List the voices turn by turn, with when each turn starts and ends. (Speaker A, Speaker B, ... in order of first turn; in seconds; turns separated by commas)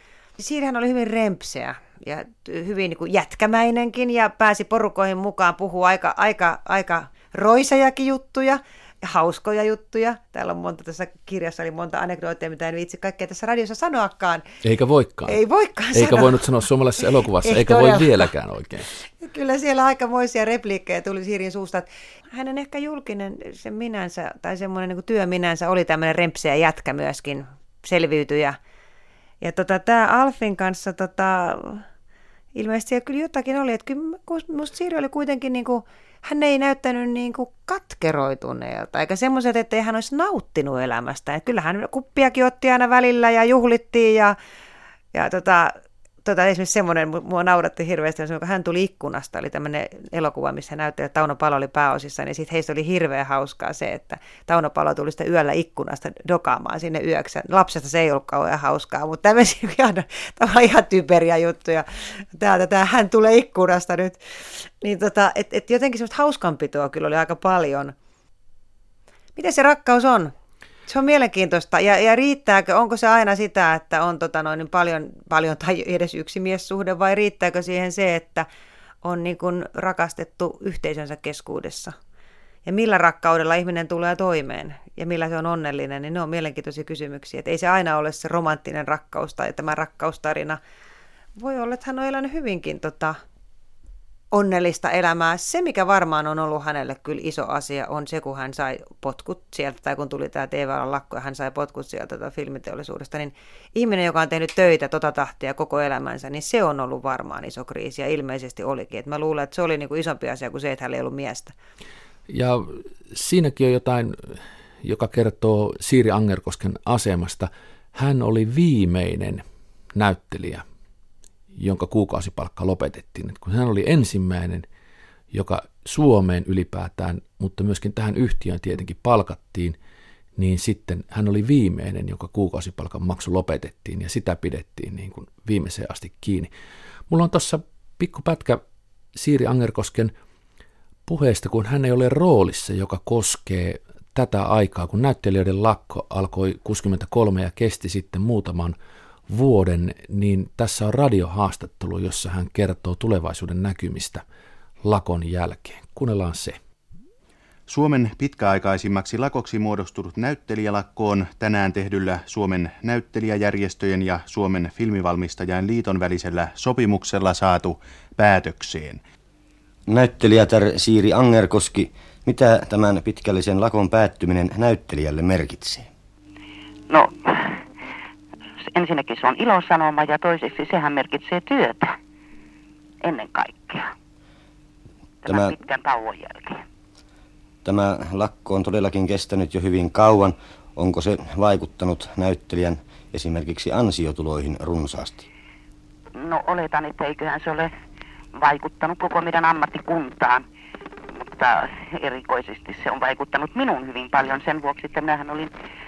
Speaker A: 0.4-14.4, Speaker B: 14.6-15.4, Speaker A: 15.3-16.4, Speaker B: 15.9-19.0, Speaker A: 17.4-18.3, Speaker A: 19.2-28.6, Speaker A: 29.4-31.8, Speaker A: 32.5-44.4, Speaker A: 45.1-64.2, Speaker A: 64.8-67.9, Speaker A: 69.3-70.3, Speaker A: 70.9-78.5, Speaker A: 79.0-81.9, Speaker A: 82.7-90.6, Speaker A: 91.4-93.2, Speaker A: 94.3-111.5, Speaker B: 112.3-120.6, Speaker B: 121.5-124.7, Speaker B: 125.3-129.8, Speaker B: 130.4-136.5, Speaker B: 137.1-138.6, Speaker B: 139.1-140.1, Speaker B: 141.1-148.8, Speaker B: 149.3-154.2, Speaker B: 154.8-156.6, Speaker C: 157.7-169.0, Speaker D: 169.9-175.9, Speaker E: 176.9-177.6, Speaker E: 178.7-181.9, Speaker E: 183.0-183.9, Speaker E: 185.2-186.6, Speaker D: 185.3-185.5, Speaker D: 187.6-195.3, Speaker E: 196.2-197.7, Speaker E: 198.4-200.4, Speaker E: 201.1-205.5